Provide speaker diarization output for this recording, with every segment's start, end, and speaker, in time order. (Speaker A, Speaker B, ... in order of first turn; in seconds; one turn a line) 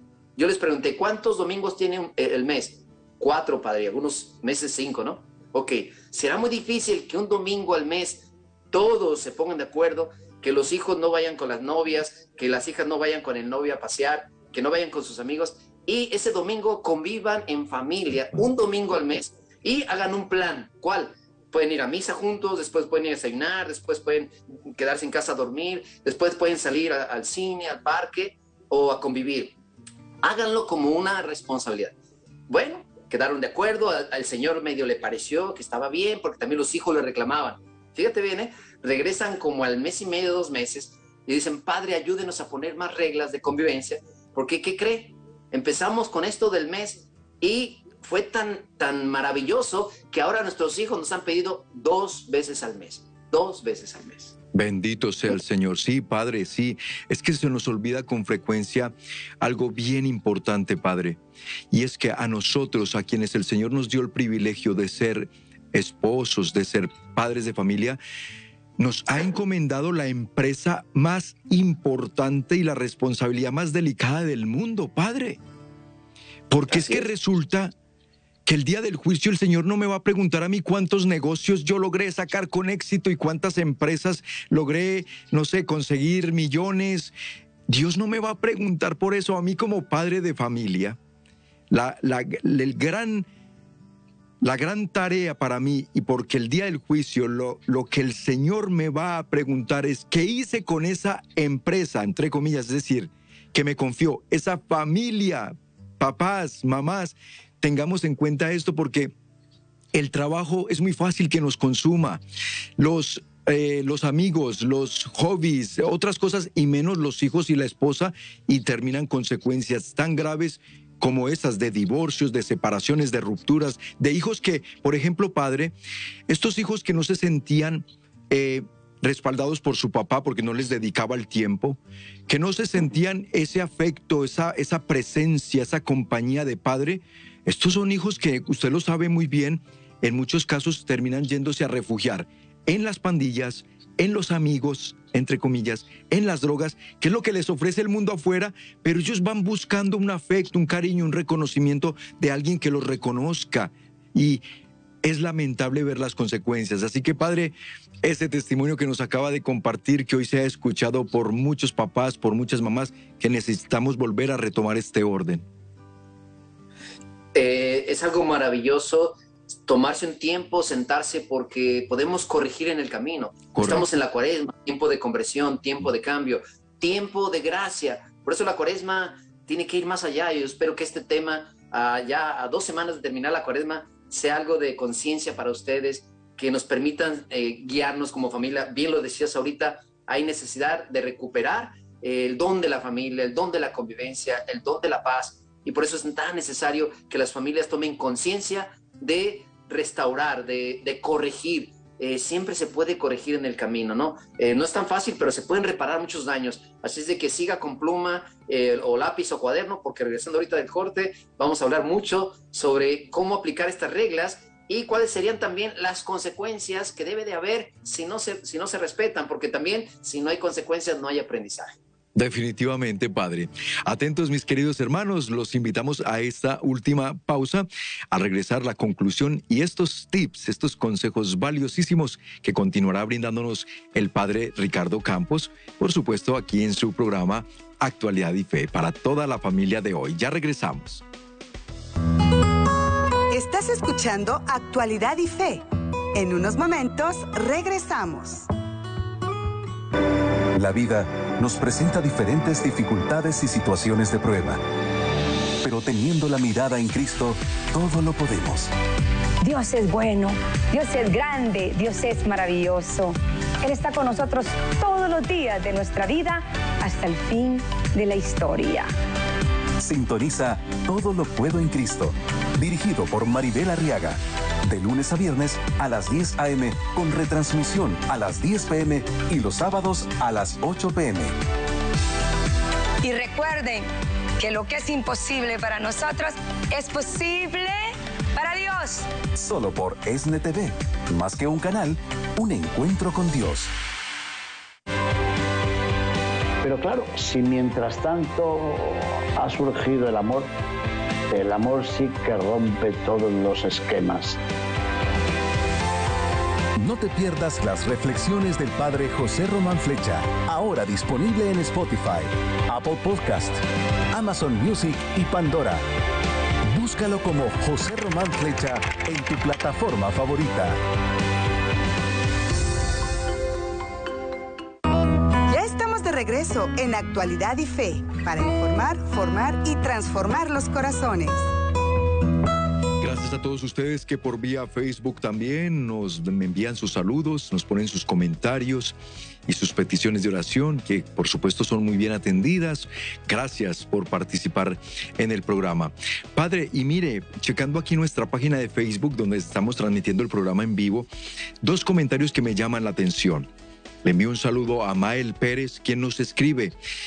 Speaker A: 0.4-29.6
Speaker A: 30.2-31.9
Speaker A: 32.5-54.3
Speaker B: 54.5-61.2
Speaker B: 61.7-68.0
Speaker B: 68.8-75.4
Speaker B: 76.5-77.7
Speaker A: 76.7-77.0
Speaker B: 78.5-87.1
Speaker B: 87.7-91.0
Speaker B: 91.7-93.3
Speaker B: 94.4-109.1
Speaker B: 109.9-112.2
Speaker B: 112.8-125.7
Speaker B: 126.3-154.4
Speaker B: 155.0-165.4
Speaker A: 167.3-221.8
Speaker B: 173.5-173.8
Speaker B: 222.1-241.0
Speaker C: 243.3-248.5
Speaker D: 250.5-254.6
Speaker D: 255.6-258.7
Speaker E: 259.4-268.9
Speaker D: 269.8-281.3
Speaker E: 283.0-283.9
Speaker E: 284.4-289.1
Speaker D: 289.4-293.7
Speaker F: 296.6-300.5
Speaker F: 301.3-304.4
Speaker D: 306.8-313.6
Speaker D: 314.1-315.8
Speaker D: 316.7-320.8
Speaker C: 325.4-331.5
Speaker B: 333.0-351.1
Speaker B: 351.6-353.5
Speaker B: 354.0-356.8